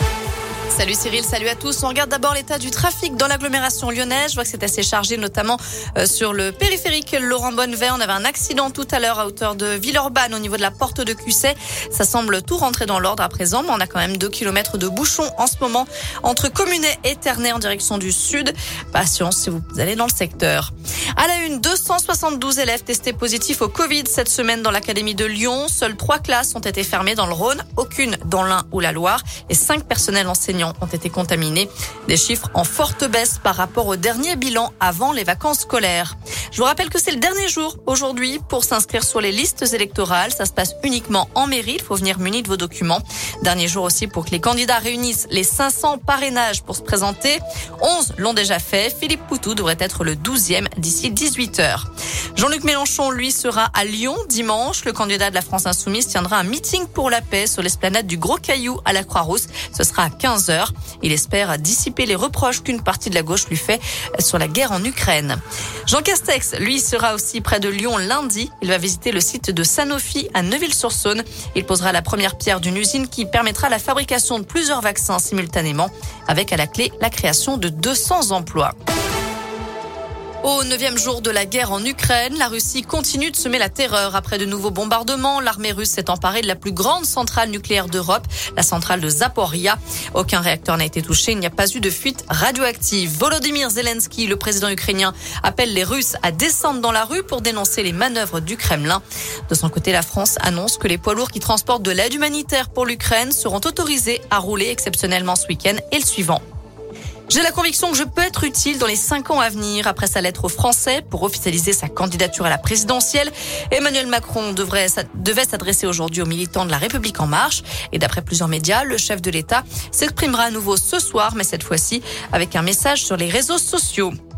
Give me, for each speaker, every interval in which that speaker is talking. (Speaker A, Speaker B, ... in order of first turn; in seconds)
Speaker A: 0.7-78.7, 80.4-106.4, 107.3-124.1